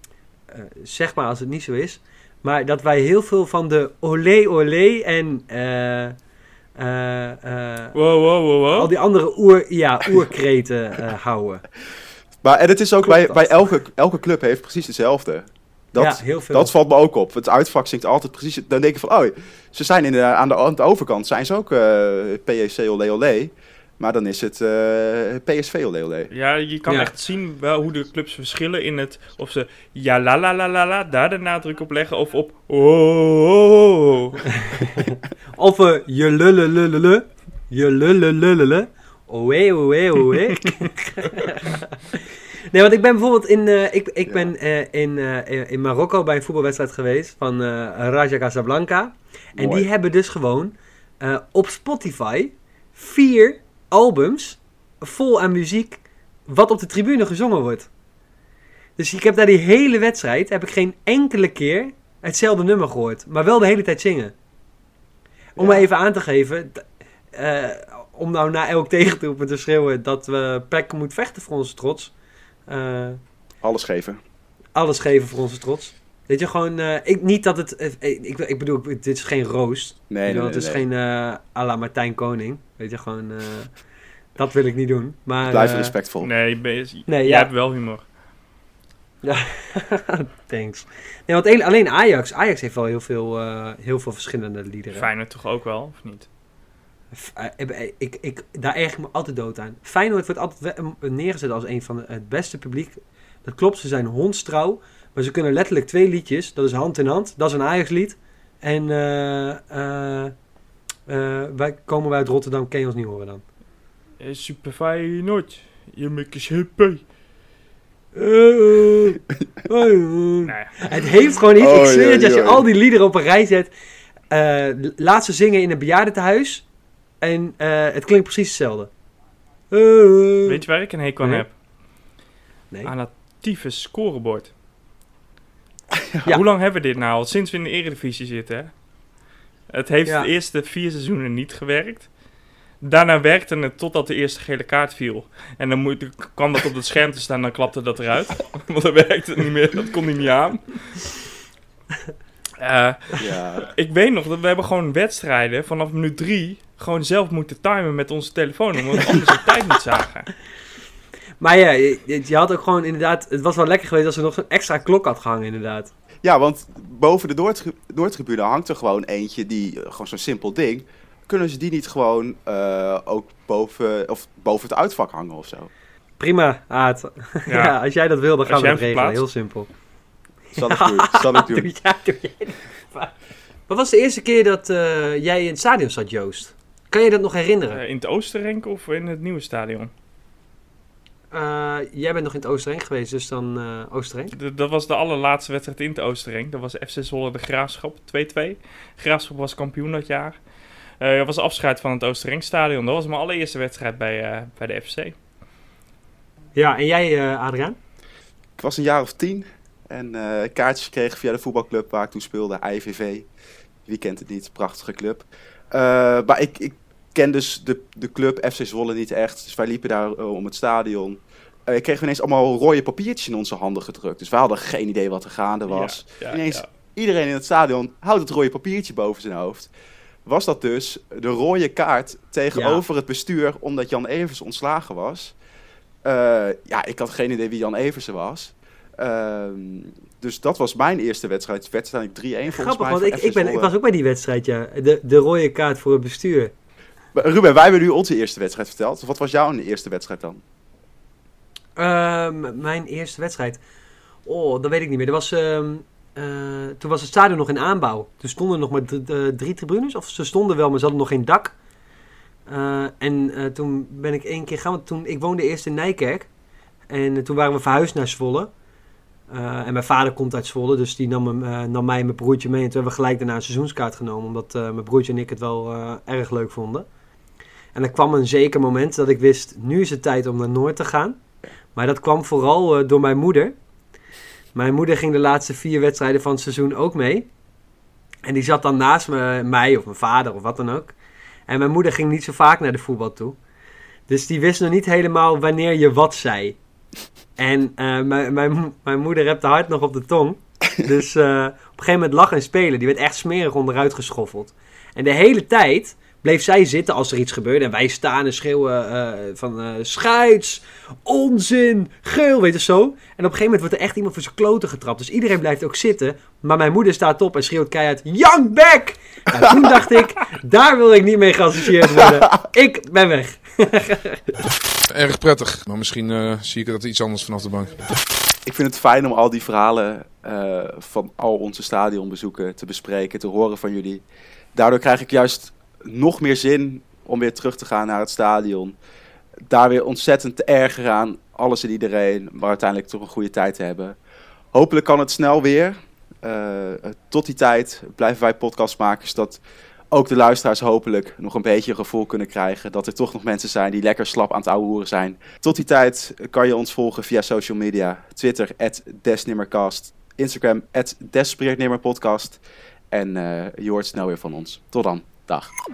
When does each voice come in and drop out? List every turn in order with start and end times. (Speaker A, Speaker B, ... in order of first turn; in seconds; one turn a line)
Speaker A: 0.5-6.2
Speaker A: 6.8-8.0
Speaker B: 7.9-8.9
Speaker A: 8.7-11.6
Speaker C: 12.4-26.3
Speaker A: 13.0-13.6
Speaker A: 15.9-16.7
Speaker B: 26.3-34.6
Speaker A: 26.9-27.1
Speaker A: 34.6-57.9
Speaker C: 49.6-49.9
Speaker A: 59.0-64.3
Speaker A: 65.6-72.1
Speaker C: 65.6-65.8
Speaker A: 72.7-73.2
Speaker C: 73.6-74.2
Speaker A: 74.8-83.7
Speaker C: 80.1-80.8
Speaker A: 84.4-86.0
Speaker C: 85.4-86.3
Speaker B: 86.2-88.0
Speaker A: 87.1-87.5
Speaker A: 89.2-95.1
Speaker B: 94.9-96.3
Speaker A: 97.1-110.3
Speaker A: 111.1-113.4
Speaker B: 114.2-117.0
Speaker A: 118.1-123.7
Speaker B: 120.4-120.7
Speaker C: 121.6-122.7
Speaker A: 124.3-126.7
Speaker A: 127.2-128.9
Speaker A: 129.7-130.6
Speaker B: 130.5-131.5
Speaker B: 132.8-134.5
Speaker B: 136.3-138.7
Speaker B: 139.7-142.1
Speaker B: 142.8-151.0
Speaker B: 152.6-160.3
Speaker C: 153.2-153.7
Speaker A: 161.4-165.9
Speaker C: 166.2-175.7
Speaker A: 176.2-179.7
Speaker B: 177.5-177.8
Speaker B: 178.4-179.2
Speaker C: 180.5-181.7
Speaker A: 180.6-183.1
Speaker A: 183.7-187.8
Speaker B: 187.7-189.9
Speaker A: 191.3-194.3
Speaker B: 194.3-200.4
Speaker B: 201.0-205.2
Speaker A: 206.6-207.8
Speaker C: 208.6-213.3
Speaker C: 213.9-229.7
Speaker B: 225.7-226.7
Speaker C: 230.3-235.3
Speaker A: 232.5-232.8
Speaker C: 236.1-243.7
Speaker A: 242.5-246.5
Speaker C: 247.2-250.4
Speaker A: 251.8-253.6
Speaker A: 254.2-261.6
Speaker A: 262.5-266.3
Speaker A: 266.9-268.5
Speaker A: 269.3-276.9
Speaker A: 277.7-281.2
Speaker A: 281.8-283.6
Speaker A: 284.6-287.3
Speaker A: 288.2-290.9
Speaker A: 291.5-293.4
Speaker A: 294.1-296.6
Speaker A: 297.4-324.4
Speaker D: 324.9-327.9
Speaker C: 328.5-334.0
Speaker C: 334.6-338.8
Speaker C: 339.5-344.0
Speaker C: 344.5-349.4
Speaker C: 349.9-362.4
Speaker C: 362.9-365.5